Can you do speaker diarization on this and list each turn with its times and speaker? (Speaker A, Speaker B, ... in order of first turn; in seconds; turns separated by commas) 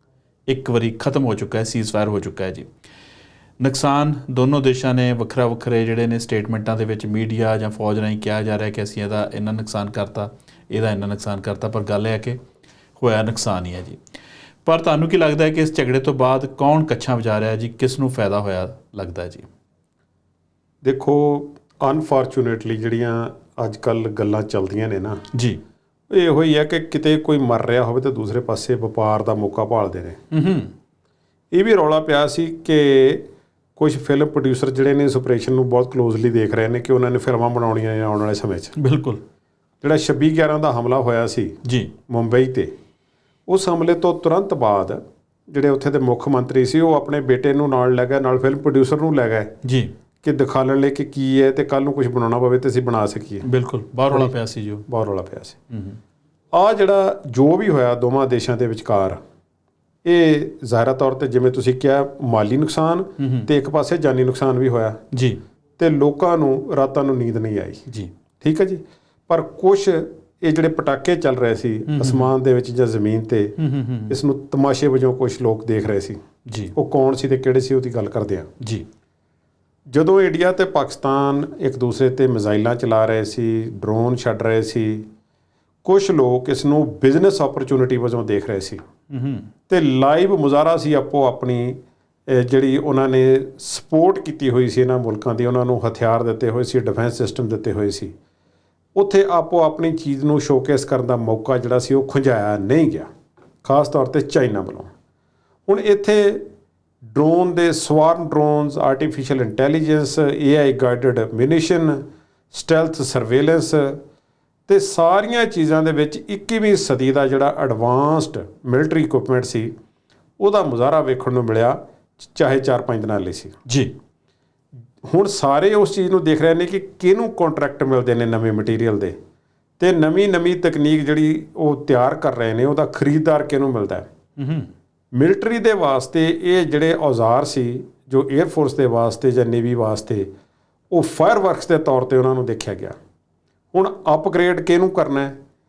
Speaker A: 0.5-2.7, Speaker A: 3.6-12.4, Speaker A: 13.0-14.0, Speaker A: 14.6-19.5, Speaker B: 20.8-25.2, Speaker A: 25.3-25.6, Speaker B: 26.1-30.2, Speaker A: 30.3-30.7, Speaker B: 31.5-33.2, Speaker B: 33.8-38.8, Speaker A: 38.8-39.2, Speaker B: 39.8-41.6, Speaker A: 41.6-41.9, Speaker B: 42.1-42.7, Speaker B: 43.5-49.5, Speaker A: 49.6-49.9, Speaker B: 50.2-53.5, Speaker A: 53.4-54.8, Speaker B: 54.9-55.6, Speaker A: 55.7-56.0, Speaker B: 56.5-59.2, Speaker B: 60.0-65.0, Speaker A: 63.2-63.5, Speaker A: 65.1-65.4, Speaker B: 65.8-67.9, Speaker B: 68.4-73.5, Speaker A: 71.9-72.3, Speaker A: 73.6-74.2, Speaker B: 74.1-76.2, Speaker A: 76.5-76.7, Speaker B: 76.7-78.5, Speaker A: 78.6-78.8, Speaker B: 79.9-85.0, Speaker B: 85.8-88.8, Speaker A: 89.1-89.5, Speaker B: 89.7-98.1, Speaker B: 98.9-103.1, Speaker B: 103.6-104.9, Speaker B: 105.7-106.4, Speaker B: 107.1-114.0, Speaker B: 114.7-119.7, Speaker B: 120.4-123.5, Speaker A: 123.7-123.9, Speaker B: 125.0-129.2, Speaker B: 129.8-134.1, Speaker A: 134.4-134.7, Speaker B: 135.1-140.3, Speaker B: 140.9-143.0, Speaker B: 143.7-145.3